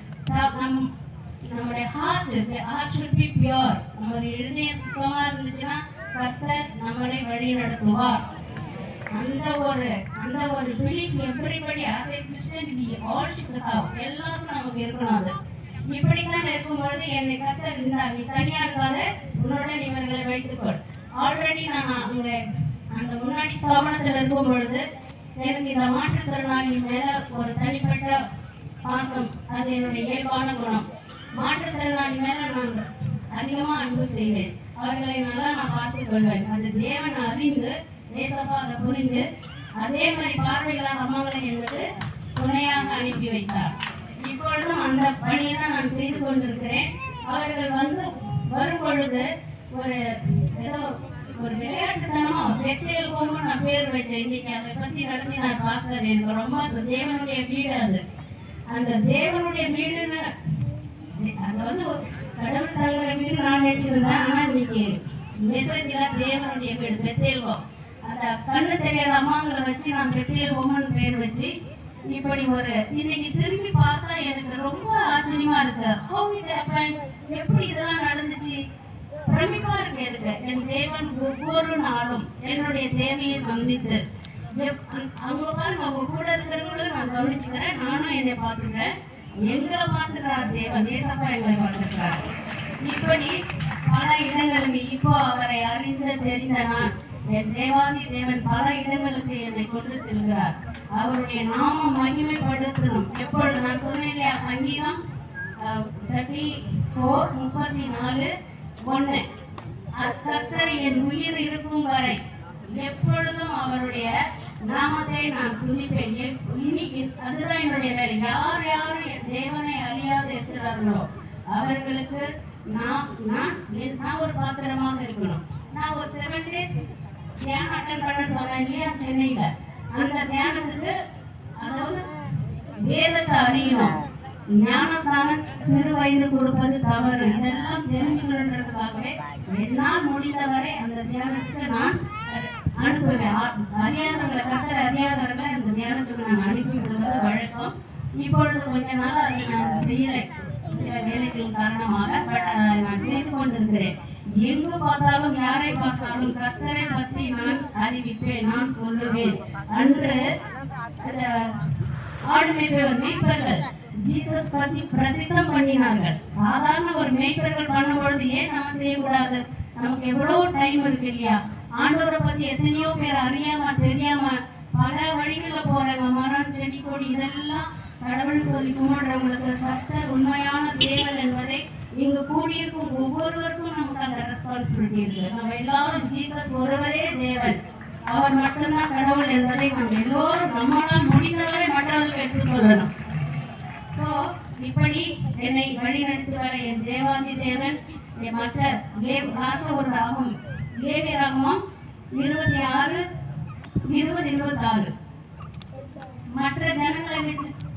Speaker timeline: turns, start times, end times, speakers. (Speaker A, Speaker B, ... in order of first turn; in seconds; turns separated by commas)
Speaker A: 0.3-8.2, Speaker A: 9.1-15.3, Speaker A: 15.9-22.4, Speaker A: 22.9-24.9, Speaker A: 25.4-28.2, Speaker A: 28.8-30.9, Speaker A: 31.4-39.2, Speaker A: 39.8-58.0, Speaker A: 58.7-60.3, Speaker A: 61.1-71.5, Speaker A: 72.1-78.6, Speaker A: 79.3-84.0, Speaker A: 84.5-92.2, Speaker A: 92.8-105.0, Speaker A: 105.6-108.3, Speaker A: 108.8-109.2, Speaker A: 109.9-126.8, Speaker A: 127.4-130.9, Speaker A: 131.6-132.1, Speaker A: 132.8-133.9, Speaker A: 134.5-160.3, Speaker A: 161.0-161.7, Speaker A: 162.3-192.9, Speaker A: 193.9-201.6, Speaker A: 202.2-203.0, Speaker A: 203.8-204.9, Speaker A: 206.3-207.5